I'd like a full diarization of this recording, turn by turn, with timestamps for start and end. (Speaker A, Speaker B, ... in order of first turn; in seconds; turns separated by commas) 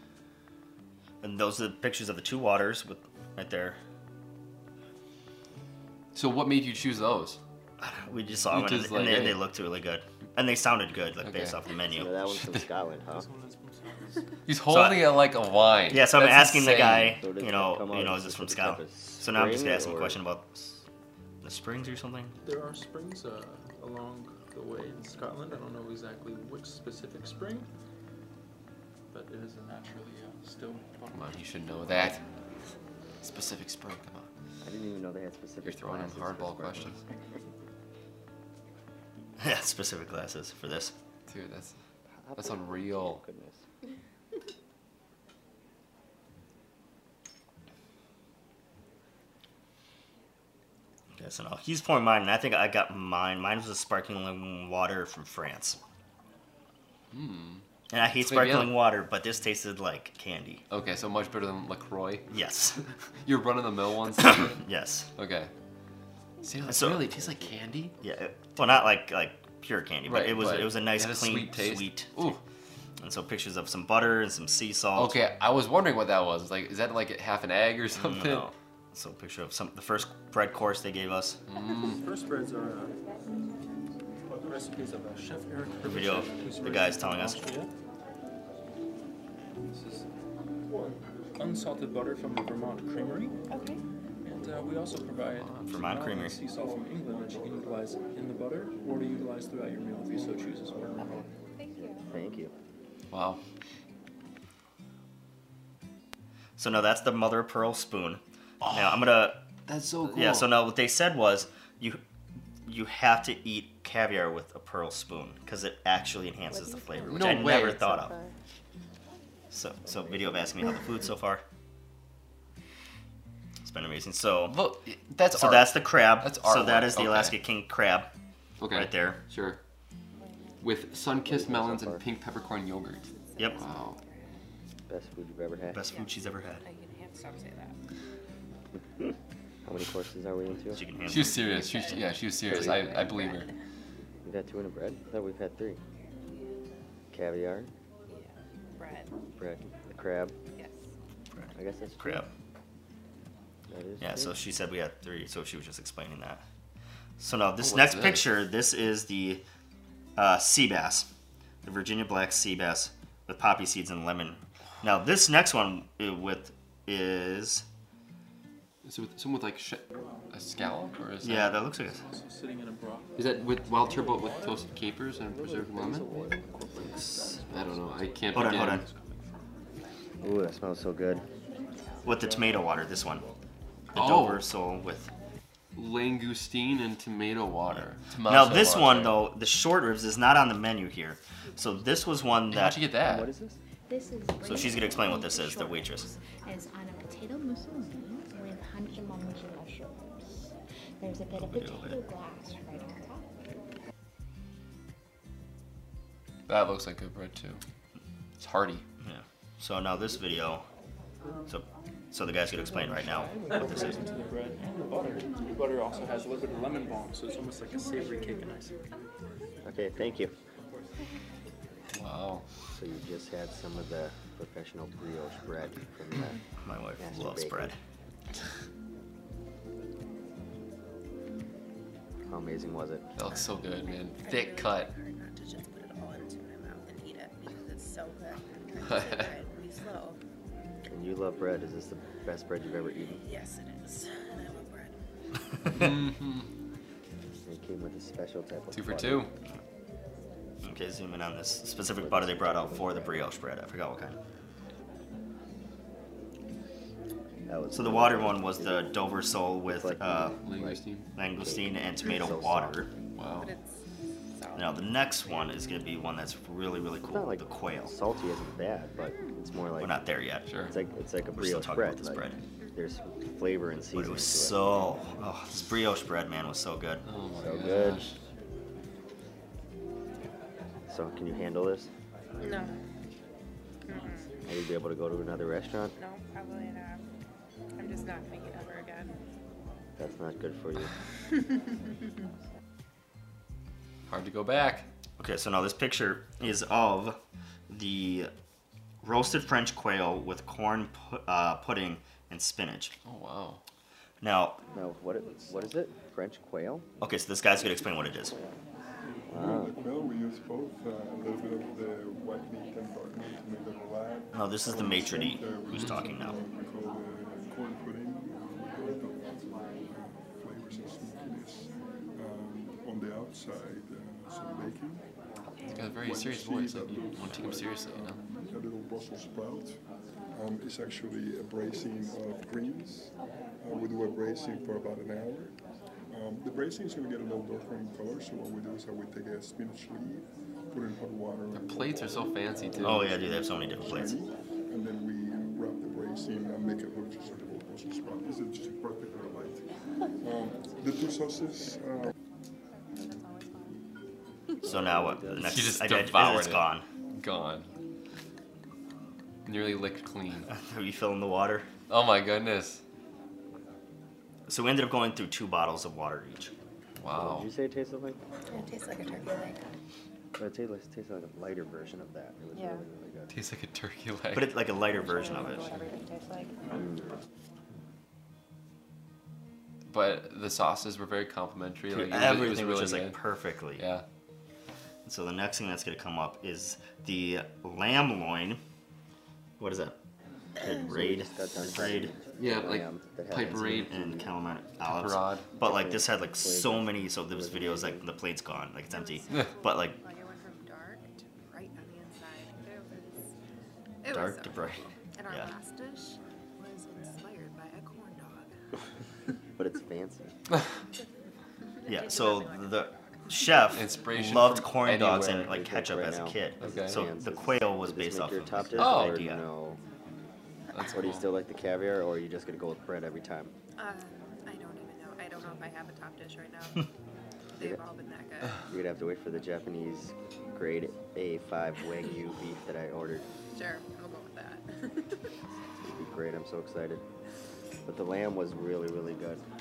Speaker A: 1.2-3.8, Speaker B: 6.1-7.4, Speaker A: 7.8-12.2, Speaker B: 8.5-9.4, Speaker B: 11.2-11.6, Speaker C: 11.9-13.3, Speaker B: 12.3-12.7, Speaker D: 13.1-14.4, Speaker B: 14.5-17.2, Speaker A: 14.7-15.1, Speaker A: 15.9-20.8, Speaker C: 17.2-20.2, Speaker A: 21.4-22.3, Speaker D: 22.4-27.7, Speaker D: 29.1-31.4, Speaker B: 31.1-32.2, Speaker B: 33.2-34.3, Speaker C: 34.6-37.0, Speaker B: 35.6-37.0, Speaker A: 39.4-40.9, Speaker B: 41.3-41.7, Speaker C: 42.1-43.6, Speaker B: 42.4-43.2, Speaker A: 51.1-55.8, Speaker B: 57.1-57.6, Speaker A: 57.9-60.6, Speaker B: 58.2-58.8, Speaker B: 60.7-62.3, Speaker A: 62.3-62.8, Speaker B: 63.2-64.6, Speaker A: 64.2-65.1, Speaker B: 65.2-65.5, Speaker B: 66.4-67.9, Speaker A: 66.7-67.0, Speaker C: 67.0-67.6, Speaker A: 68.0-72.3, Speaker B: 70.0-72.4, Speaker A: 73.0-75.2, Speaker B: 75.0-78.5, Speaker A: 78.0-81.4, Speaker B: 81.5-82.0, Speaker D: 81.6-83.0, Speaker D: 84.4-87.7, Speaker A: 85.8-87.5, Speaker D: 89.7-90.1, Speaker D: 91.4-93.4, Speaker E: 93.5-93.8, Speaker D: 94.2-101.2, Speaker B: 95.3-95.8, Speaker A: 95.7-96.4, Speaker F: 96.5-97.8, Speaker F: 100.1-101.3, Speaker E: 101.0-102.1, Speaker C: 101.8-102.5, Speaker B: 103.1-103.4, Speaker A: 106.6-109.4, Speaker B: 108.6-109.0, Speaker B: 109.6-110.5, Speaker A: 110.0-112.0, Speaker A: 112.6-118.1, Speaker E: 116.5-118.3, Speaker B: 117.1-117.9, Speaker A: 119.5-121.4, Speaker C: 119.8-120.6, Speaker A: 123.6-124.6, Speaker B: 124.5-127.3, Speaker A: 125.3-128.1, Speaker B: 128.6-129.6, Speaker A: 128.7-129.2, Speaker E: 130.2-130.7, Speaker B: 130.6-134.0, Speaker C: 131.2-132.0, Speaker E: 133.1-134.2, Speaker C: 134.9-135.8, Speaker A: 135.7-136.6, Speaker E: 135.9-137.8, Speaker C: 139.6-140.8, Speaker A: 140.7-141.4, Speaker B: 141.1-143.5, Speaker E: 141.2-143.6, Speaker C: 142.5-142.9, Speaker C: 144.2-145.8, Speaker C: 147.1-147.7, Speaker E: 148.1-149.1, Speaker C: 149.4-150.3, Speaker E: 150.5-150.9, Speaker A: 151.3-152.3, Speaker C: 151.5-152.2, Speaker C: 153.7-154.4, Speaker A: 154.0-156.4, Speaker A: 157.2-159.4, Speaker B: 157.6-158.3, Speaker A: 160.2-161.1, Speaker A: 161.6-167.7, Speaker B: 168.8-171.6, Speaker A: 171.2-172.0, Speaker D: 171.8-179.0, Speaker B: 173.2-176.1, Speaker B: 177.5-178.8, Speaker A: 178.3-178.8, Speaker C: 180.2-181.2, Speaker D: 182.0-183.4, Speaker A: 182.0-183.2, Speaker A: 183.9-185.1, Speaker B: 183.9-184.4, Speaker B: 185.7-189.2, Speaker A: 187.7-192.8, Speaker B: 192.5-193.3, Speaker C: 193.0-193.6, Speaker G: 193.9-203.3, Speaker A: 194.4-196.1, Speaker A: 201.3-202.0, Speaker B: 206.5-207.6, Speaker B: 208.4-208.8, Speaker A: 209.0-210.6, Speaker A: 211.5-214.0, Speaker D: 212.7-218.7, Speaker C: 219.6-220.3, Speaker B: 221.9-222.4, Speaker C: 222.7-226.4, Speaker A: 226.6-227.8, Speaker C: 227.0-227.7, Speaker C: 232.2-233.1, Speaker B: 233.2-234.9, Speaker E: 233.3-240.2, Speaker B: 238.8-239.3, Speaker C: 240.9-243.2, Speaker E: 243.1-245.0, Speaker B: 245.7-246.5, Speaker C: 247.4-249.3, Speaker B: 248.7-249.3, Speaker A: 250.6-254.2, Speaker C: 251.9-253.2, Speaker C: 257.5-258.9, Speaker A: 257.7-260.4, Speaker C: 259.6-260.8, Speaker B: 260.4-261.0, Speaker A: 261.1-262.9, Speaker C: 261.3-262.9, Speaker B: 263.1-263.5, Speaker E: 263.4-265.4, Speaker A: 264.5-267.9, Speaker C: 267.1-270.0, Speaker A: 269.8-270.5, Speaker B: 270.4-270.7, Speaker C: 270.7-274.8, Speaker A: 271.3-272.4, Speaker A: 273.9-277.0, Speaker B: 277.0-278.2, Speaker C: 277.4-278.1, Speaker C: 280.9-281.9, Speaker E: 282.4-282.8, Speaker E: 283.9-284.3, Speaker C: 284.4-285.9, Speaker E: 286.0-287.1, Speaker E: 287.8-289.2, Speaker C: 290.0-290.9, Speaker B: 294.1-294.9, Speaker A: 295.2-298.3, Speaker A: 299.0-302.9, Speaker B: 303.0-303.6, Speaker A: 304.2-304.6, Speaker C: 304.7-306.9, Speaker A: 307.0-308.3, Speaker F: 309.2-325.0, Speaker C: 309.3-309.8, Speaker A: 314.3-316.4, Speaker B: 315.7-316.0, Speaker B: 325.7-328.2, Speaker F: 325.7-329.8, Speaker F: 330.3-335.5, Speaker F: 336.1-342.2, Speaker B: 341.5-343.2, Speaker F: 342.8-349.6, Speaker A: 342.8-344.2, Speaker F: 350.2-352.1, Speaker E: 352.9-353.8, Speaker C: 354.6-355.8, Speaker A: 354.6-356.8, Speaker B: 355.4-357.7, Speaker B: 359.4-360.5, Speaker A: 360.5-361.7, Speaker B: 361.9-362.8, Speaker A: 364.5-366.5, Speaker B: 367.0-367.5, Speaker C: 367.1-368.2, Speaker E: 368.5-369.6, Speaker C: 370.4-373.3, Speaker E: 372.5-372.8, Speaker B: 373.3-374.5, Speaker A: 374.3-375.7, Speaker E: 374.9-376.5, Speaker C: 376.7-377.1, Speaker B: 379.9-383.2, Speaker A: 381.9-383.8, Speaker B: 383.8-384.0, Speaker A: 385.0-388.6, Speaker A: 389.6-390.0, Speaker A: 390.6-392.1, Speaker C: 390.6-394.3, Speaker B: 392.4-394.0, Speaker A: 393.9-400.0, Speaker B: 394.8-395.4, Speaker C: 395.6-398.0, Speaker E: 398.9-403.3, Speaker E: 404.0-408.5, Speaker A: 404.1-405.5, Speaker C: 409.6-410.3, Speaker E: 411.8-413.9, Speaker A: 411.9-419.4, Speaker B: 413.7-415.5, Speaker C: 415.0-419.8, Speaker B: 416.6-417.0, Speaker B: 418.8-419.2, Speaker B: 420.7-421.2, Speaker C: 420.9-423.5, Speaker E: 423.8-426.9, Speaker E: 427.5-428.6, Speaker C: 428.7-433.2, Speaker E: 433.5-435.3, Speaker C: 435.8-437.0, Speaker C: 437.9-439.4